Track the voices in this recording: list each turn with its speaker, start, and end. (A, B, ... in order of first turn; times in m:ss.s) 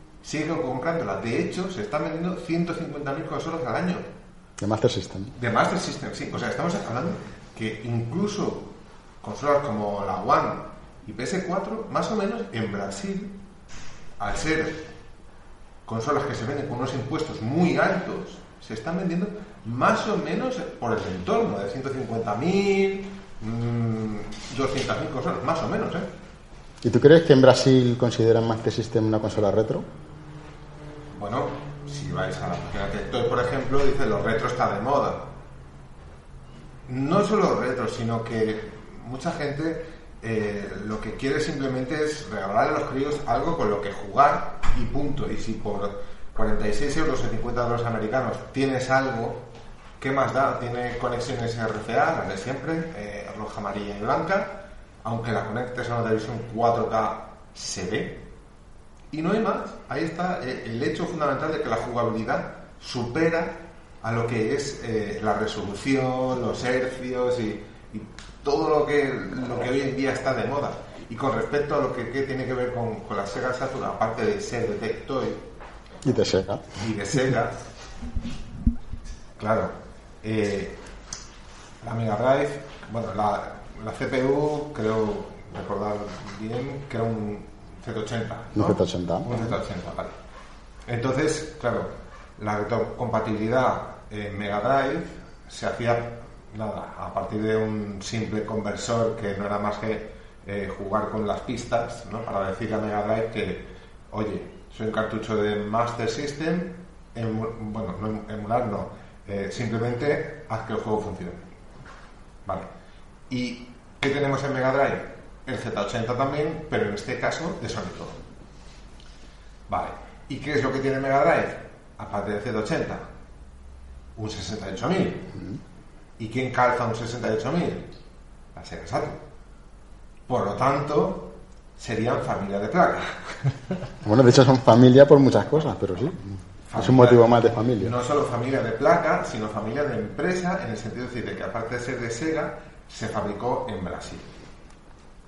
0:00.2-0:04.1 A
0:04.6-0:05.3 B
0:05.4-0:13.4 A
0:14.2-0:14.9 A
0:15.8-0:26.1 A
0:26.8-0:29.8 B
0:31.1-0:35.3 A
0:36.8-0:49.4 A
0:50.0-0:58.2 A
0:59.1-1:15.4 A
1:16.0-1:16.8 B
1:16.8-1:17.6 A
1:19.4-1:20.8 A
1:21.8-1:30.1 A
1:28.5-1:29.5 B
1:30.8-1:51.5 A
1:53.3-1:58.2 A
1:59.7-2:03.1 A
2:04.1-2:05.3 A
2:06.2-2:07.9 A
2:08.5-2:09.2 A
2:10.3-2:13.6 A
2:14.0-2:17.9 B
2:16.7-2:24.3 A